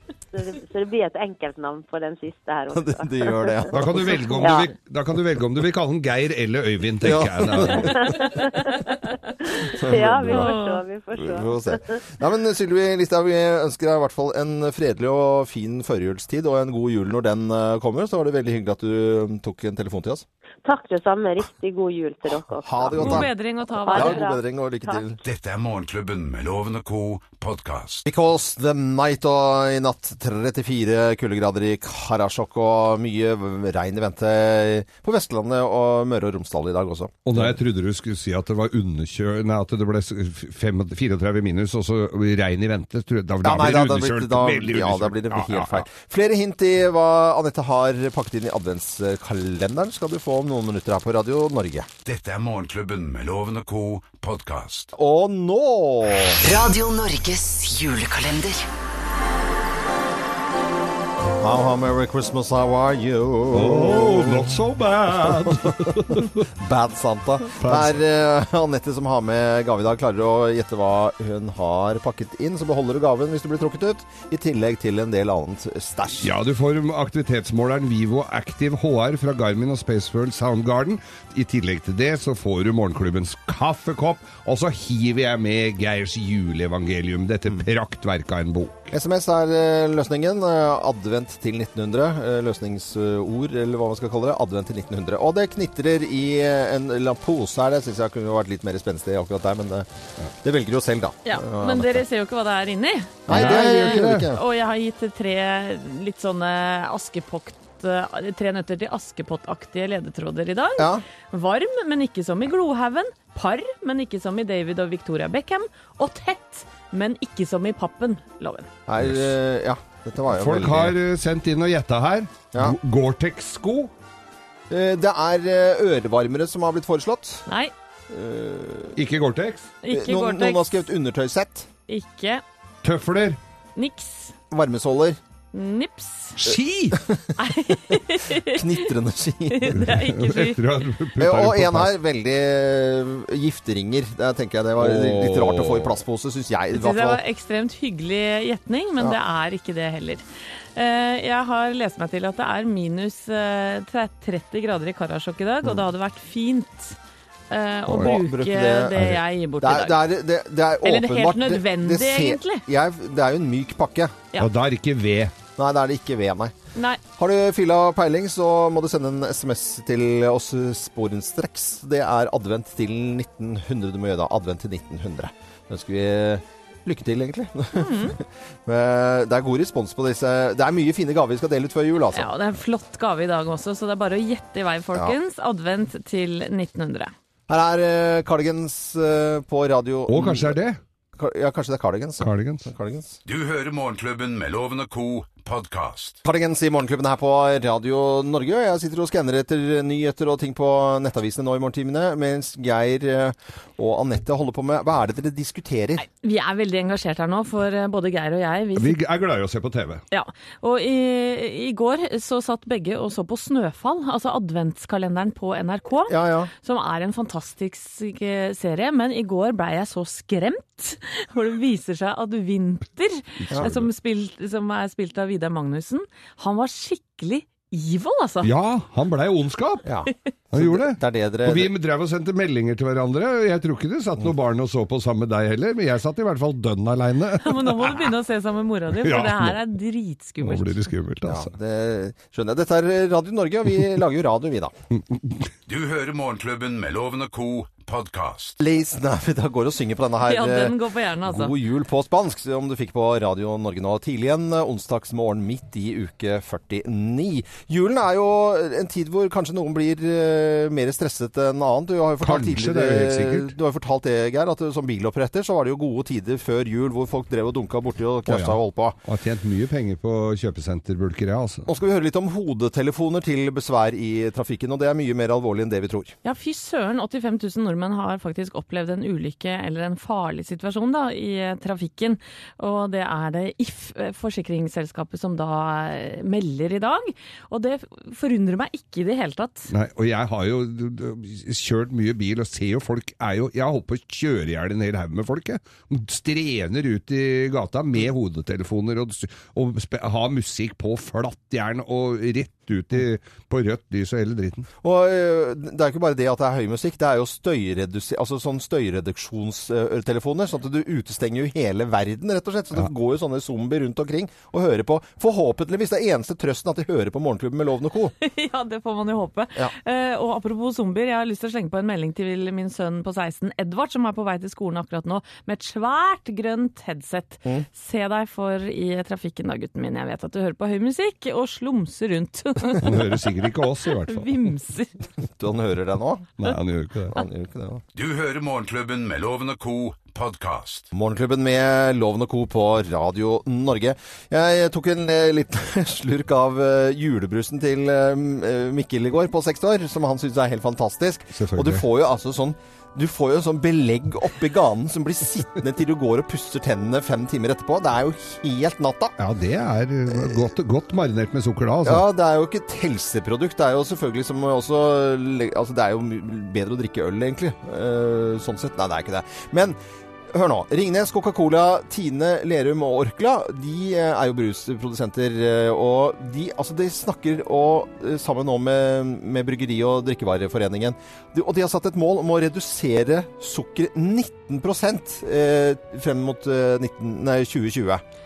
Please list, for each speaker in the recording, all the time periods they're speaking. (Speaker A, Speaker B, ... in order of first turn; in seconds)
Speaker A: 0.3-3.7, 4.3-4.7, 7.7-12.0, 20.6-23.3, 23.8-25.0
Speaker B: 2.7-4.6, 7.0-8.1, 9.7-10.5, 11.2-20.2, 22.6-23.3, 23.9-25.2, 28.1-37.5, 43.4-51.9, 54.9-56.4, 61.4-64.6, 65.1-76.3, 88.9-99.9, 100.4-102.0, 103.3-104.4, 110.8-111.0, 118.9-121.0, 124.7-127.5, 128.1-129.0, 129.9-131.7, 134.5-135.2, 136.9-137.3, 138.4-139.8, 141.2-147.2, 157.9-164.2, 165.6-166.5, 167.2-182.3, 187.5-190.6, 191.2-193.2, 196.2-206.0, 216.1-216.5, 229.8-231.7, 241.2-244.7, 248.6-269.0, 271.7-276.1, 304.8-318.1, 335.4-336.4, 337.1-337.8, 340.9-359.1, 360.1-360.5, 361.8-369.8, 370.3-388.0
Speaker C: 3.7-8.2, 37.2-45.9, 63.5-66.5, 67.6-68.0, 76.2-88.9, 103.3-104.3, 119.0-119.3, 120.3-123.9, 128.9-129.7, 132.8-133.4, 136.4-137.0, 139.8-141.9, 144.8-146.0, 157.9-158.2, 164.4-165.3, 190.1-190.8, 192.2-192.6, 208.7-210.0, 223.5-223.9, 228.4-229.9, 230.5-238.1, 238.9-239.6, 240.4-241.5, 245.1-245.5, 262.2-263.5, 268.3-271.6, 289.7-304.7, 332.8-334.5, 336.4-337.2, 351.3-351.8, 359.2-362.0
Speaker D: 10.3-10.8, 22.9-24.2, 101.2-118.7, 129.8-130.9, 131.9-132.4, 133.8-134.3, 135.5-136.4, 137.4-138.9, 139.5-140.6, 146.7-150.2, 150.7-157.0, 157.5-160.0, 160.8-162.6, 166.7-167.0, 177.7-178.2, 182.1-187.1, 206.0-209.0, 210.1-228.5, 237.4-240.9, 250.2-251.5, 276.2-289.7, 318.2-333.2, 333.9-335.0
Speaker E: 25.2-28.0, 52.0-54.9, 193.2-196.2, 245.7-248.6, 337.9-340.9
Speaker F: 56.4-58.7